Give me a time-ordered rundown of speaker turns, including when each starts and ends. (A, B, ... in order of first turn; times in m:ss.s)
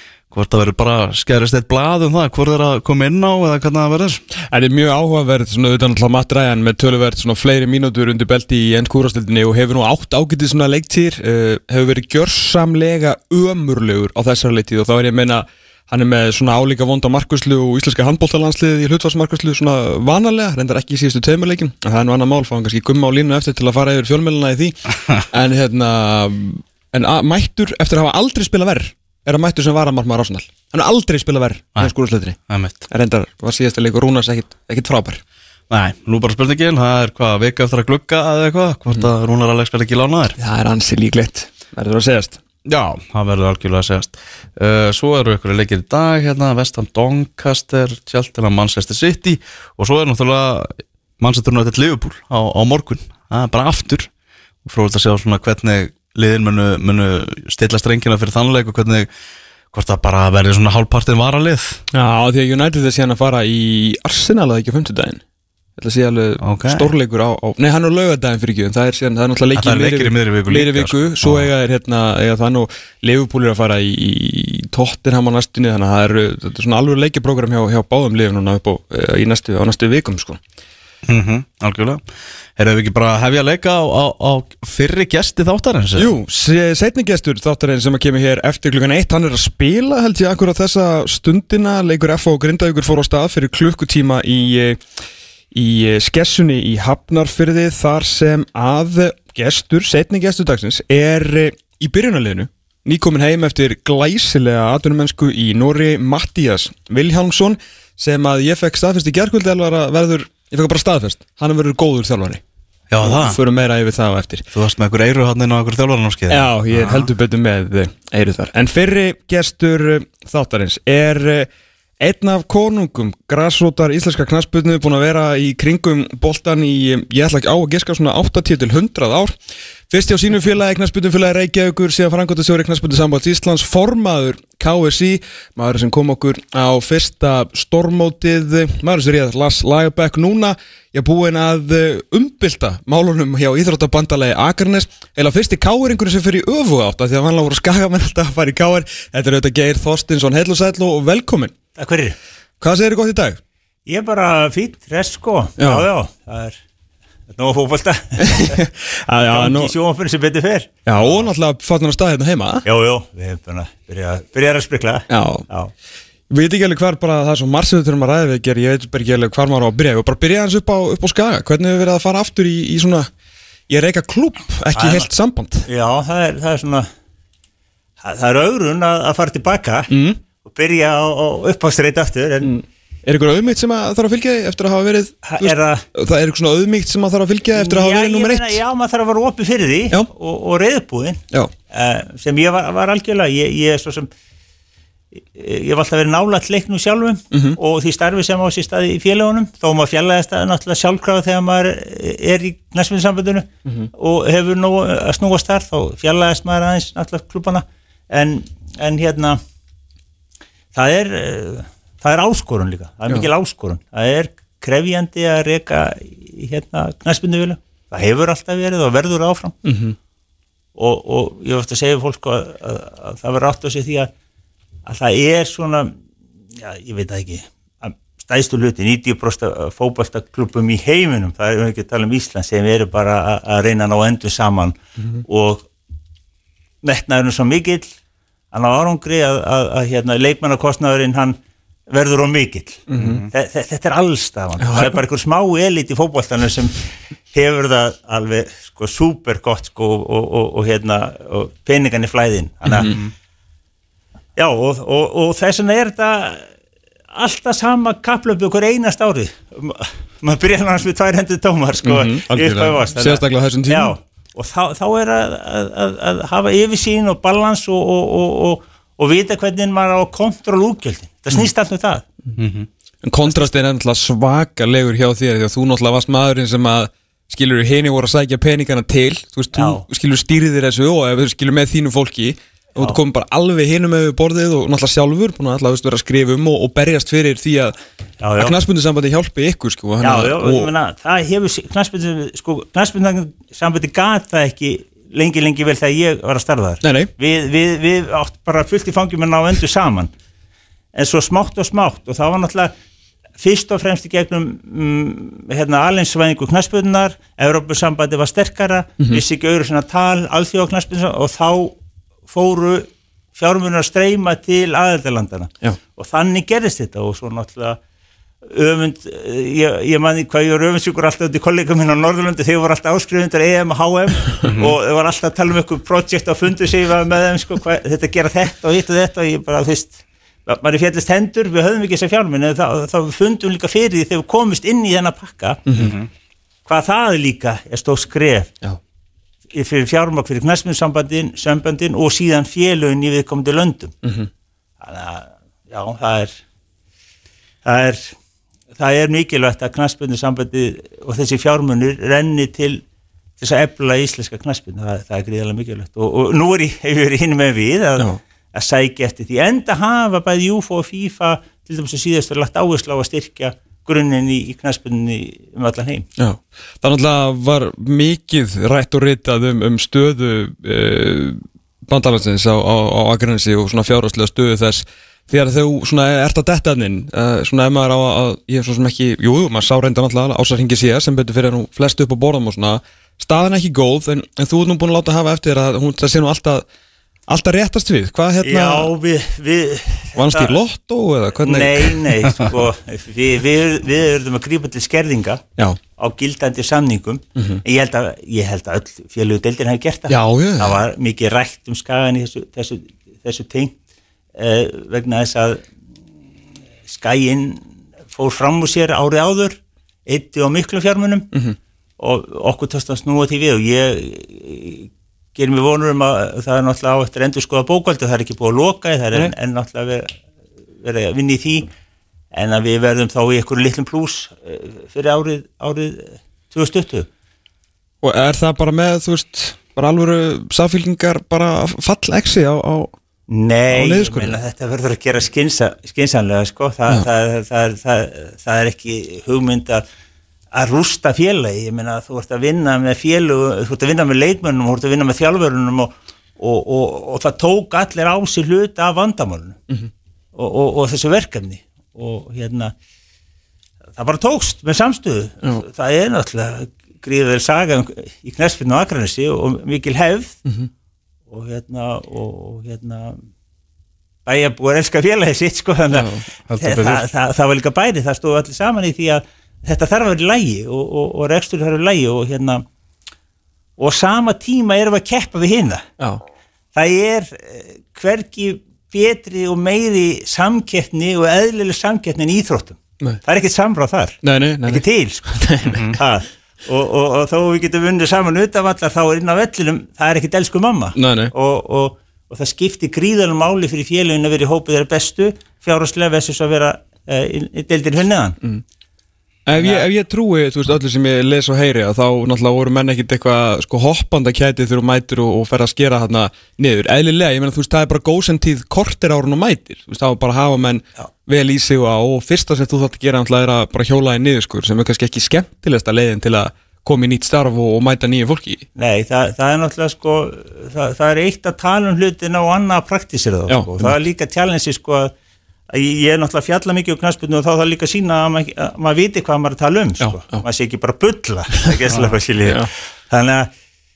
0:00.3-0:04.2 A
0:04.4-0:35.2 B
0:32.5-0:32.8 A
0:35.7-0:40.4 A
0:40.4-0:42.4 B
0:42.6-0:54.1 A
0:54.6-0:59.1 A
0:59.7-1:01.8 A
1:01.9-1:05.2 B
1:05.8-1:20.4 B
1:06.4-1:06.9 A
1:09.6-1:11.5 A
1:21.0-1:26.1 A
1:26.0-1:34.8 B
1:35.5-1:52.4 B
1:52.9-1:53.4 A
1:53.0-1:54.5 B
1:54.5-1:57.1 A
1:56.3-2:01.5 B
2:02.0-2:09.4 B
2:09.9-2:31.6 B
2:31.8-2:32.2 C
2:32.6-2:33.4 B
2:33.9-2:36.6 C
2:35.6-2:35.9 B
2:37.3-2:38.6 C
2:38.2-2:39.7 B
2:39.3-2:41.3 C
2:40.9-2:42.7 B
2:42.6-2:45.7 C
2:45.1-2:45.5 B
2:46.3-2:53.1 B
2:53.7-2:55.7 B
2:54.8-2:55.1 C
2:55.7-2:56.9 C
2:58.0-2:59.9 C
2:59.9-3:00.2 B
3:00.4-3:02.5 C
3:02.4-3:08.6 B
3:05.2-3:05.8 C
3:07.6-3:14.1 C
3:15.2-3:29.4 C
3:17.3-3:17.6 B
3:30.7-3:39.6 C
3:39.6-3:40.0 B
3:40.8-3:44.1 C
3:44.9-3:45.9 C
3:46.6-3:55.7 C
3:56.8-3:57.9 C
3:58.5-4:01.4 C
4:01.9-4:13.0 C
4:02.9-4:03.2 B
4:03.0-4:03.3 A
4:04.6-4:05.0 B
4:12.7-4:13.0 B
4:14.4-4:16.5 C
4:17.1-4:32.1 C
4:21.8-4:23.9 B
4:32.4-4:32.7 A
4:33.0-4:47.8 B
4:33.3-4:33.5 C
4:39.5-4:39.8 C
4:48.2-4:48.6 C
4:48.4-4:50.7 B
4:50.0-5:00.1 C
4:56.8-4:57.1 B
5:00.9-5:02.7 C
5:03.4-5:11.8 C
5:12.3-5:17.8 C
5:18.5-5:35.8 C
5:24.5-5:24.8 A
5:35.7-5:35.9 B
5:35.8-5:36.1 A
5:36.7-5:38.5 C
5:39.5-5:44.0 C
5:44.0-5:44.3 B
5:44.8-5:46.3 C
5:47.6-5:48.1 C
5:48.8-5:52.8 C
5:53.4-6:06.1 C
6:06.2-6:26.7 B
6:27.3-6:28.9 B
6:28.4-6:30.6 C
6:30.2-6:32.1 B
6:31.4-6:35.4 C
6:36.0-6:43.8 C
6:37.4-6:37.6 B
6:40.1-6:40.8 B
6:44.4-6:45.6 C
6:46.9-6:47.6 C
6:48.1-6:51.3 C
6:52.0-7:00.1 C
7:00.8-7:01.7 C
7:02.3-7:07.1 C
7:08.0-7:12.9 B
7:13.3-7:19.8 C
7:13.7-7:14.4 B
7:20.5-7:29.6 C
7:30.4-7:32.7 C
7:34.0-7:40.4 C
7:41.3-7:43.2 C
7:44.3-7:52.6 C
7:45.9-7:46.3 B
7:46.5-7:47.0 A
7:53.8-7:55.9 C
7:56.8-8:18.4 C
8:04.2-8:05.8 B
8:05.7-8:06.0 A
8:11.0-8:11.3 B
8:19.5-8:38.6 B
8:19.6-8:19.9 C
8:38.8-8:45.1 C
8:43.5-8:44.0 B
8:45.7-8:53.5 C
8:50.0-8:50.4 B
8:52.4-8:52.7 B